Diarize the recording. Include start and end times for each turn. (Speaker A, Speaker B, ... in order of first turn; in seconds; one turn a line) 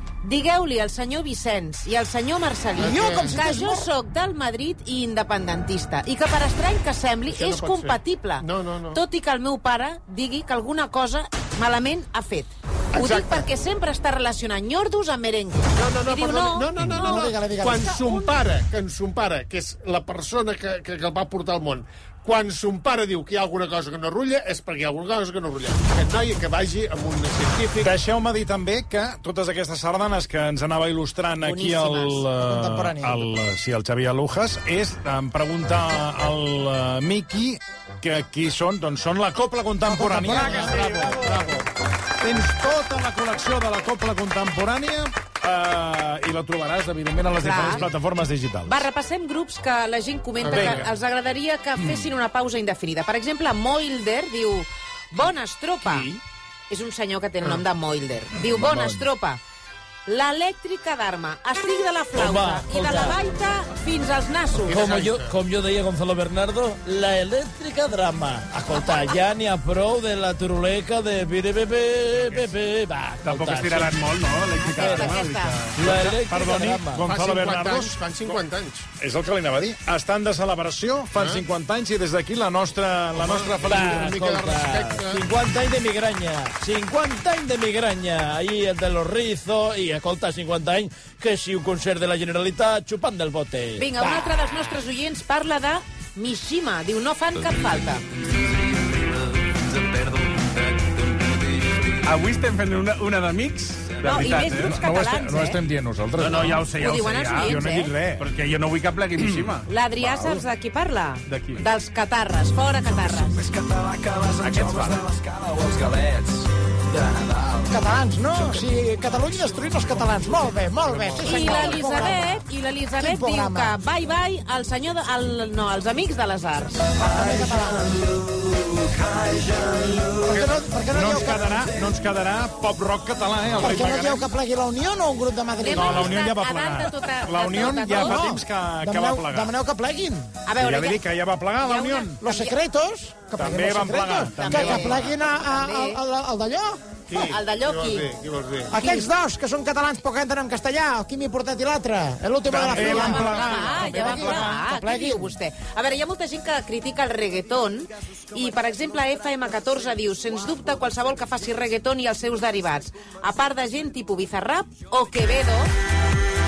Speaker A: 0.2-17.3
Speaker B: 2.8-3.4
Speaker C: 2.8-3.9
Speaker B: 7.3-9.0
Speaker B: 12.9-13.5
Speaker B: 15.7-27.9
Speaker C: 16.9-18.0
Speaker A: 17.9-18.4
Speaker D: 27.8-41.1
Speaker A: 31.4-32.2
Speaker C: 31.9-33.2
Speaker C: 39.9-41.3
Speaker E: 40.3-41.5
Speaker B: 41.1-41.5
Speaker D: 42.2-48.9
Speaker A: 47.4-47.9
Speaker A: 48.6-56.1
Speaker B: 50.4-50.9
Speaker D: 50.5-50.9
Speaker D: 51.8-52.1
Speaker A: 56.7-59.4
Speaker F: 58.6-59.0
Speaker D: 58.7-59.0
Speaker A: 60.0-64.9
Speaker F: 62.1-63.2
Speaker B: 64.5-65.3
Speaker F: 64.7-74.0
Speaker E: 73.2-75.8
Speaker A: 74.6-75.6
Speaker F: 74.7-75.2
Speaker F: 75.7-77.0
Speaker D: 75.8-78.4
Speaker B: 77.0-78.8
Speaker D: 79.0-84.1
Speaker B: 83.2-85.2
Speaker F: 83.7-94.0
Speaker A: 93.8-98.0
Speaker E: 102.0-104.8
Speaker A: 104.0-105.6
Speaker D: 104.3-106.8
Speaker E: 106.2-107.6
Speaker A: 106.7-108.0
Speaker D: 107.3-108.3
Speaker E: 108.2-109.7
Speaker D: 109.2-110.5
Speaker A: 109.7-113.5
Speaker E: 111.2-111.6
Speaker D: 113.4-116.2
Speaker E: 114.4-115.0
Speaker C: 117.7-122.4
Speaker B: 120.9-122.1
Speaker A: 121.2-126.9
Speaker C: 123.0-123.8
Speaker C: 127.0-128.0
Speaker C: 130.2-131.7
Speaker D: 130.9-134.3
Speaker C: 133.6-136.2
Speaker A: 135.6-138.2
Speaker D: 135.6-139.5
Speaker C: 137.9-140.3
Speaker A: 140.4-141.0
Speaker D: 140.6-142.2
Speaker A: 141.6-142.6
Speaker C: 142.2-146.9
Speaker D: 143.4-145.1
Speaker A: 144.2-146.0
Speaker B: 147.1-148.8
Speaker A: 147.1-148.1
Speaker C: 148.7-155.3
Speaker A: 148.8-149.1
Speaker D: 152.5-154.5
Speaker A: 152.5-165.7